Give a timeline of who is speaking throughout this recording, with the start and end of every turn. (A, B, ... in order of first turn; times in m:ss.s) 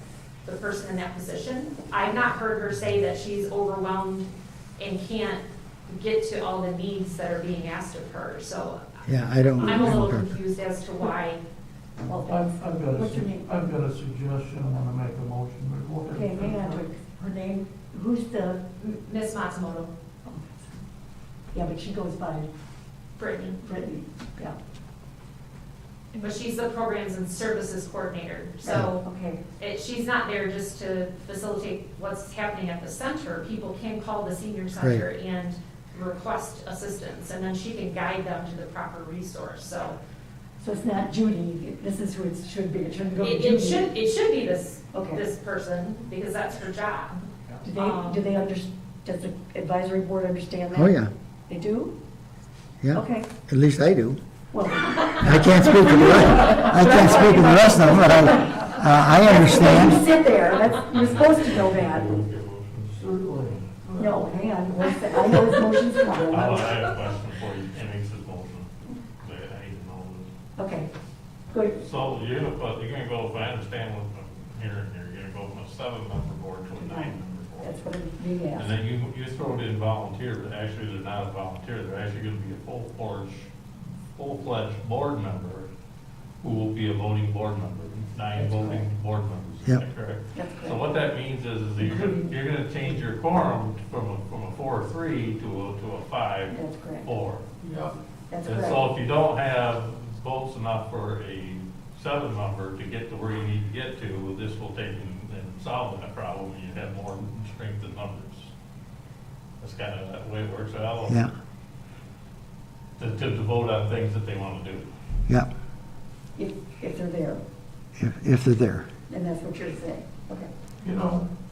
0:00.4-0:08.8 A
0:09.0-0:10.4 B
0:09.6-0:11.4 A
0:12.0-0:13.5 C
0:12.3-0:16.8 D
0:16.1-0:18.6 C
0:18.8-0:19.9 A
0:20.2-0:20.7 C
0:21.5-0:22.5 C
0:23.2-0:23.6 A
0:23.6-0:24.6 C
0:26.1-0:29.0 A
0:28.7-0:29.4 C
0:29.6-0:40.0 A
0:34.8-0:35.0 B
0:40.6-0:43.9 C
0:43.2-0:47.2 A
0:44.9-0:45.2 C
0:47.6-0:51.0 C
0:47.8-0:48.2 A
0:50.7-0:51.1 B
0:51.5-0:51.9 C
0:52.8-0:54.2 B
0:52.9-0:53.3 C
0:54.5-1:02.2 C
0:55.1-1:00.0 B
1:01.0-1:02.9 E
1:02.9-1:04.2 D
1:04.0-1:06.8 C
1:06.3-1:10.3 E
1:10.6-1:10.9 C
1:11.5-1:11.8 C
1:11.8-1:17.8 E
1:16.8-1:18.7 C
1:18.6-1:23.5 E
1:24.1-1:25.7 E
1:26.4-1:37.5 E
1:28.3-1:28.8 C
1:30.3-1:30.8 C
1:31.8-1:32.3 C
1:36.5-1:37.1 C
1:37.6-1:37.9 D
1:38.3-1:38.8 C
1:38.4-1:48.5 E
1:49.6-1:51.3 E
1:51.1-1:51.3 B
1:53.0-1:54.9 E
1:56.4-1:57.4 C
1:58.0-1:58.9 B
1:59.1-2:00.5 C
2:00.8-2:01.2 D